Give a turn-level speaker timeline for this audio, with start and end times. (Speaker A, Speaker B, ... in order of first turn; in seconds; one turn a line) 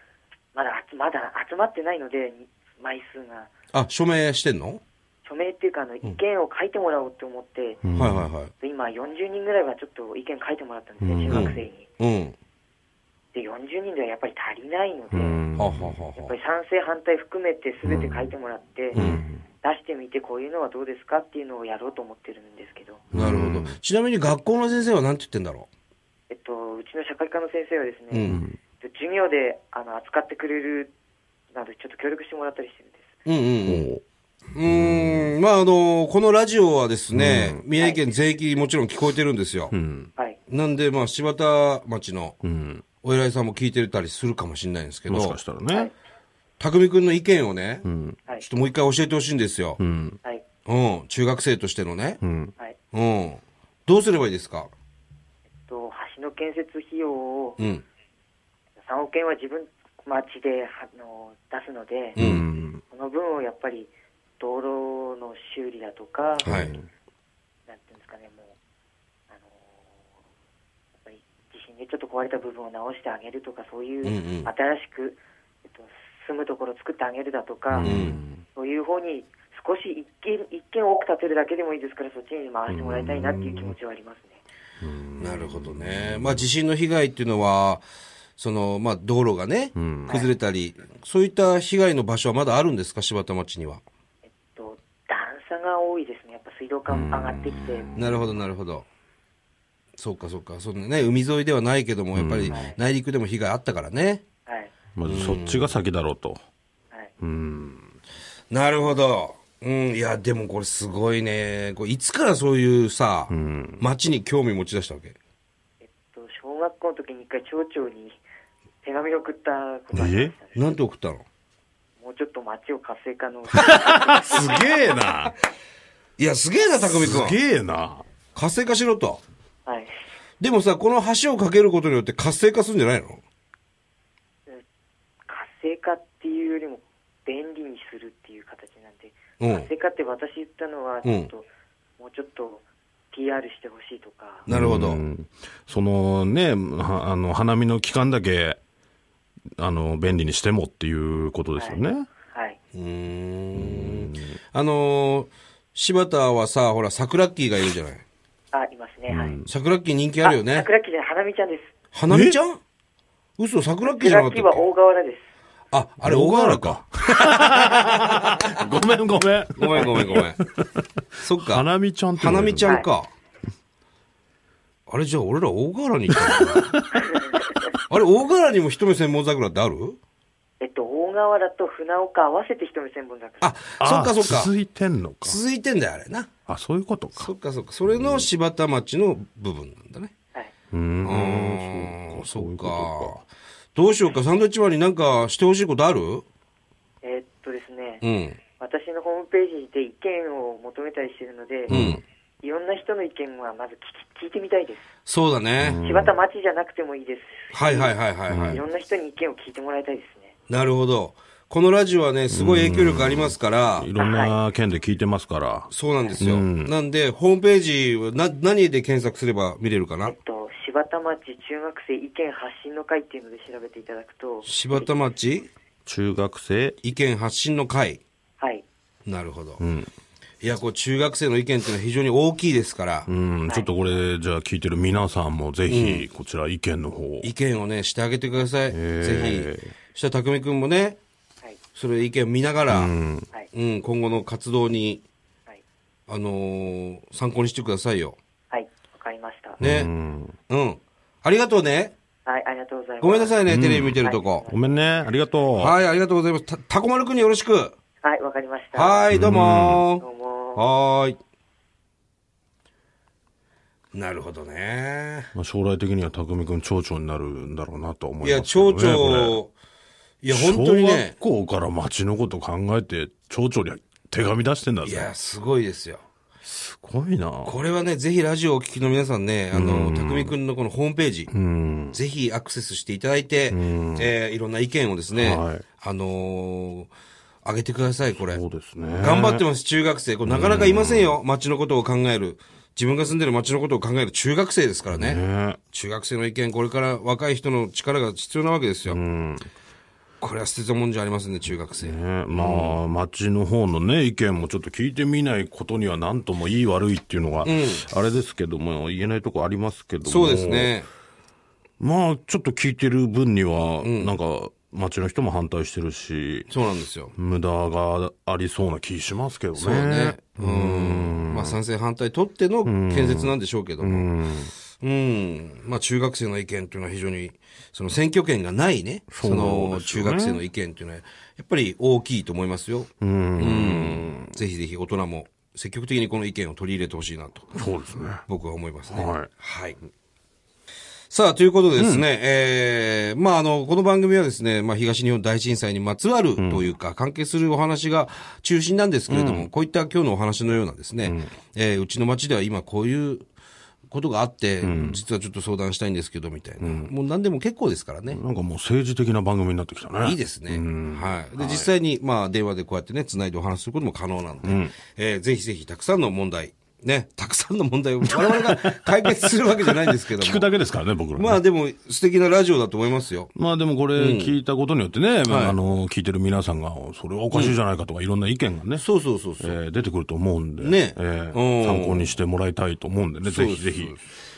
Speaker A: 0.5-3.5
Speaker B: 3.7-4.8
Speaker A: 5.2-7.8
Speaker C: 7.8-8.2
Speaker B: 7.9-8.5
Speaker A: 8.6-11.9
Speaker C: 11.0-11.6
Speaker B: 11.3-12.3
Speaker A: 13.3-15.4
Speaker C: 15.1-16.0
Speaker B: 15.6-16.3
Speaker A: 16.2-19.0
Speaker C: 17.8-18.3
Speaker C: 18.9-19.4
Speaker B: 18.9-19.2
Speaker A: 19.6-23.0
Speaker C: 23.1-23.8
Speaker B: 23.1-25.7
Speaker A: 26.3-28.3
Speaker B: 28.1-28.4
Speaker C: 28.2-28.6
Speaker A: 28.8-30.9
Speaker A: 31.5-33.0
Speaker B: 33.2-33.9
Speaker C: 33.6-34.0
Speaker B: 34.5-39.7
Speaker C: 34.7-35.3
Speaker C: 37.1-37.6
Speaker A: 37.8-38.0
Speaker C: 39.7-40.1
Speaker B: 40.5-42.4
Speaker C: 42.4-42.8
Speaker B: 43.0-45.4
Speaker C: 45.1-45.9
Speaker B: 46.6-47.9
Speaker C: 47.8-48.2
Speaker B: 48.4-49.8
Speaker C: 49.8-50.2
Speaker B: 50.6-52.2
Speaker C: 52.2-52.5
Speaker B: 52.9-54.7
Speaker A: 55.7-57.6
Speaker B: 57.6-57.8
Speaker A: 58.8-62.2
Speaker B: 62.1-62.5
Speaker C: 62.2-62.8
Speaker A: 62.9-66.5
Speaker B: 66.4-66.8
Speaker C: 66.4-66.8
Speaker A: 67.7-68.5
Speaker A: 69.3-69.8
Speaker A: 71.0-77.9
Speaker B: 74.0-74.5
Speaker C: 77.7-78.4
Speaker B: 77.8-78.2
Speaker A: 78.5-84.4
Speaker C: 82.7-83.8
Speaker C: 84.8-86.4
Speaker B: 85.2-87.8
Speaker B: 88.4-93.8
Speaker C: 89.8-90.1
Speaker A: 94.5-97.9
Speaker C: 96.9-98.3
Speaker B: 98.0-98.9
Speaker B: 100.0-104.2
Speaker C: 102.1-102.5
Speaker A: 102.5-102.8
Speaker A: 104.5-104.7
Speaker C: 104.9-106.4
Speaker B: 105.0-105.7
Speaker C: 107.2-107.9
Speaker B: 108.5-115.2
Speaker C: 113.3-113.8
Speaker A: 115.8-118.2
Speaker A: 118.8-120.6
Speaker C: 119.9-120.3
Speaker B: 120.5-121.2
Speaker A: 122.0-124.5
Speaker C: 123.5-125.3
Speaker B: 126.2-127.4
Speaker C: 126.9-128.0
Speaker B: 128.3-129.2
Speaker A: 129.7-129.9
Speaker B: 130.4-133.2
Speaker A: 135.3-141.5
Speaker B: 139.4-139.7
Speaker B: 141.0-141.3
Speaker A: 142.0-144.5
Speaker B: 144.5-145.0
Speaker C: 144.5-148.6
Speaker C: 149.6-152.1
Speaker A: 151.6-152.6
Speaker B: 152.7-158.0
Speaker C: 153.5-154.4
Speaker A: 158.5-159.4
Speaker C: 159.1-159.5
Speaker B: 159.5-160.7
Speaker A: 160.2-161.7
Speaker B: 161.9-162.6
Speaker C: 162.1-162.4
Speaker B: 163.4-164.7
Speaker A: 163.8-165.2
Speaker B: 165.7-167.3
Speaker C: 166.0-172.8
Speaker B: 169.6-170.4
Speaker A: 169.7-170.0
Speaker B: 171.2-171.7
Speaker B: 172.2-173.1
Speaker B: 174.9-176.8
Speaker C: 176.1-177.1
Speaker B: 177.9-180.0
Speaker A: 180.6-183.5
Speaker B: 183.4-184.5
Speaker C: 183.8-185.4
Speaker B: 185.2-186.3
Speaker C: 186.5-187.3
Speaker B: 187.1-190.1
Speaker C: 187.9-188.2
Speaker C: 190.7-193.2
Speaker B: 191.0-193.2
Speaker B: 193.8-196.2
Speaker A: 197.0-198.0
Speaker B: 198.0-198.4
Speaker A: 198.6-201.7
Speaker B: 201.7-202.0
Speaker C: 201.7-202.0
Speaker A: 202.4-204.8
Speaker B: 205.1-205.8
Speaker C: 205.6-206.1
Speaker A: 205.8-210.3
Speaker B: 207.5-208.6
Speaker C: 208.3-208.6
Speaker B: 210.5-213.9
Speaker C: 212.3-216.7
Speaker A: 214.0-214.3
Speaker B: 215.7-220.1
Speaker A: 220.0-224.9
Speaker B: 224.4-225.5
Speaker C: 225.8-226.8
Speaker B: 226.8-228.0
Speaker B: 229.1-229.6
Speaker C: 229.6-229.9
Speaker B: 230.4-233.1
Speaker C: 233.1-237.3
Speaker A: 233.4-234.0
Speaker B: 235.7-236.1
Speaker B: 237.2-241.0
Speaker C: 238.7-239.7
Speaker B: 241.8-242.9
Speaker C: 242.7-243.3
Speaker B: 243.5-245.0
Speaker B: 246.1-248.2
Speaker A: 248.5-249.6
Speaker C: 249.6-250.4
Speaker B: 249.6-249.9
Speaker B: 250.5-251.9
Speaker A: 252.2-253.4
Speaker B: 253.0-254.4
Speaker C: 253.5-255.8
Speaker A: 254.0-254.8
Speaker B: 255.6-257.8
Speaker A: 258.0-259.1
Speaker B: 258.7-261.2
Speaker C: 259.1-259.8
Speaker A: 260.0-260.6
Speaker B: 263.9-265.3
Speaker C: 265.3-269.4
Speaker B: 268.2-269.5
Speaker B: 270.2-271.1
Speaker C: 270.3-275.1
Speaker B: 274.8-276.0
Speaker C: 276.4-277.5
Speaker B: 277.4-281.3
Speaker C: 279.5-280.3
Speaker C: 281.3-282.0
Speaker B: 281.9-286.9
Speaker C: 283.5-284.1
Speaker C: 285.1-285.6
Speaker B: 287.4-288.4
Speaker C: 288.2-289.4
Speaker B: 289.0-299.0
Speaker C: 290.2-291.2
Speaker C: 294.9-295.6
Speaker C: 298.9-299.4
Speaker B: 300.2-302.8
Speaker C: 301.8-310.7
Speaker B: 307.4-307.8
Speaker B: 310.0-310.9
Speaker C: 311.8-316.5
Speaker B: 313.8-314.1
Speaker B: 316.5-317.1
Speaker C: 317.1-321.6
Speaker B: 319.5-324.1
Speaker C: 322.6-324.5
Speaker B: 324.8-337.5
Speaker C: 329.1-330.4
Speaker C: 333.0-334.4
Speaker C: 337.5-338.2
Speaker B: 338.2-339.8
Speaker C: 338.9-339.3
Speaker B: 341.1-353.2
Speaker C: 341.8-342.0
Speaker C: 346.4-346.7
Speaker C: 349.1-349.5
Speaker C: 351.0-351.3
Speaker B: 353.9-358.2
Speaker C: 354.6-355.0
Speaker C: 356.6-356.9
Speaker C: 358.1-361.7
Speaker B: 360.0-370.5
Speaker C: 364.4-364.7
Speaker C: 368.0-371.4
Speaker B: 371.1-373.3
Speaker C: 373.3-378.8
Speaker B: 373.9-374.4
Speaker B: 375.2-375.6
Speaker B: 377.3-377.6
Speaker B: 378.8-379.6
Speaker C: 379.4-384.0
Speaker B: 380.6-382.1
Speaker B: 383.2-384.0